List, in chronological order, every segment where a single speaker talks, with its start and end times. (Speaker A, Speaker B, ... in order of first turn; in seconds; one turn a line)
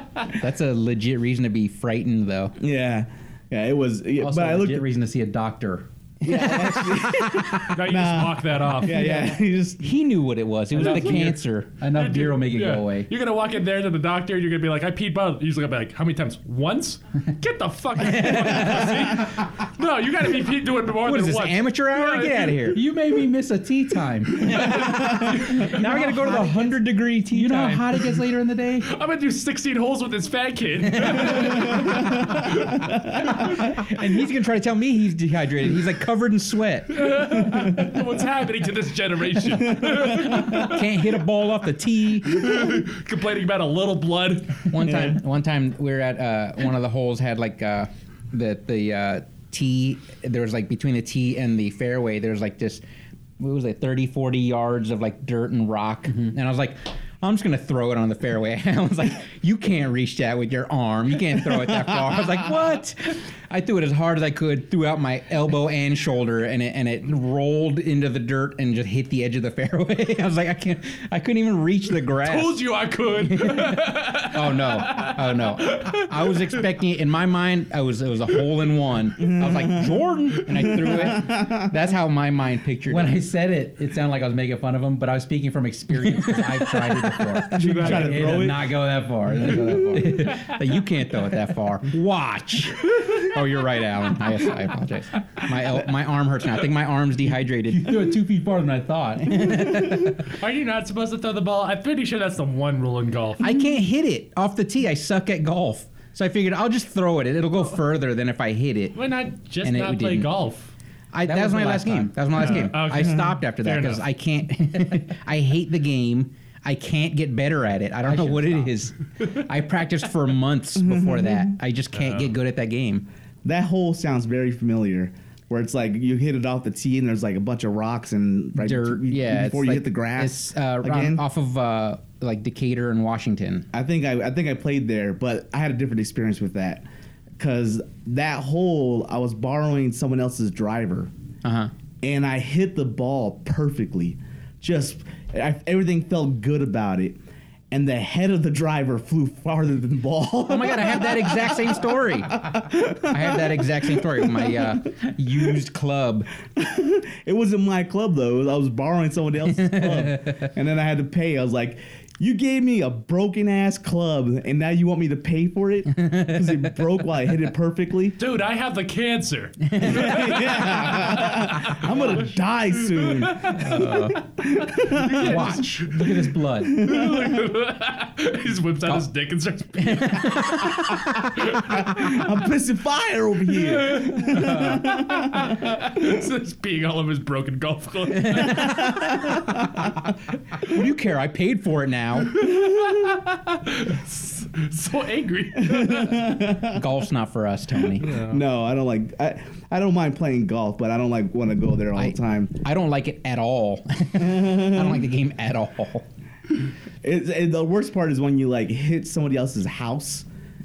Speaker A: 0.3-2.6
Speaker B: 2.6-4.9
Speaker C: 4.2-5.8
Speaker B: 6.2-9.9
Speaker A: 6.3-7.6
Speaker D: 7.6-9.1
Speaker C: 8.9-9.3
Speaker A: 9.8-11.7
Speaker C: 10.7-13.1
Speaker D: 11.9-22.7
Speaker A: 18.0-19.2
Speaker A: 21.0-22.8
Speaker C: 22.7-28.9
Speaker A: 24.2-28.0
Speaker D: 24.5-25.7
Speaker D: 28.9-33.6
Speaker A: 30.9-31.7
Speaker A: 33.6-37.1
Speaker D: 36.9-41.0
Speaker B: 39.8-40.4
Speaker A: 40.1-42.6
Speaker D: 42.2-44.7
Speaker A: 44.7-52.8
Speaker B: 44.9-45.1
Speaker A: 53.4-72.6
Speaker D: 72.2-76.6
Speaker A: 73.2-83.2
Speaker B: 79.2-81.6
Speaker C: 82.9-90.4
Speaker A: 85.9-88.1
Speaker D: 87.5-88.5
Speaker B: 87.5-88.8
Speaker A: 89.7-98.1
Speaker C: 97.6-99.8
Speaker A: 99.3-100.2
Speaker D: 100.2-103.5
Speaker A: 103.4-109.0
Speaker D: 108.9-110.7
Speaker A: 109.6-110.3
Speaker A: 111.1-123.1
Speaker C: 111.2-112.3
Speaker D: 112.3-114.0
Speaker C: 118.0-118.8
Speaker B: 120.9-121.4
Speaker D: 122.0-122.3
Speaker B: 123.4-131.2
Speaker A: 128.6-133.7
Speaker B: 133.7-136.8
Speaker B: 137.4-141.1
Speaker A: 141.4-141.7
Speaker B: 142.0-147.2
Speaker B: 147.7-154.7
Speaker A: 150.5-156.3
Speaker B: 156.5-168.2
Speaker A: 159.7-160.3
Speaker A: 165.9-166.7
Speaker D: 168.2-180.8
Speaker A: 169.7-170.0
Speaker B: 169.8-173.8
Speaker A: 173.5-174.2
Speaker B: 174.4-175.5
Speaker A: 175.1-175.9
Speaker C: 175.2-176.9
Speaker B: 176.6-177.4
Speaker A: 179.8-181.4
Speaker D: 181.3-182.2
Speaker B: 181.5-185.5
Speaker D: 183.5-189.0
Speaker A: 188.2-190.0
Speaker B: 188.6-189.9
Speaker A: 190.6-192.4
Speaker D: 192.3-196.4
Speaker B: 195.6-196.8
Speaker A: 196.6-198.2
Speaker D: 198.0-198.4
Speaker B: 198.0-202.5
Speaker A: 201.9-206.0
Speaker B: 204.2-205.0
Speaker B: 207.0-210.2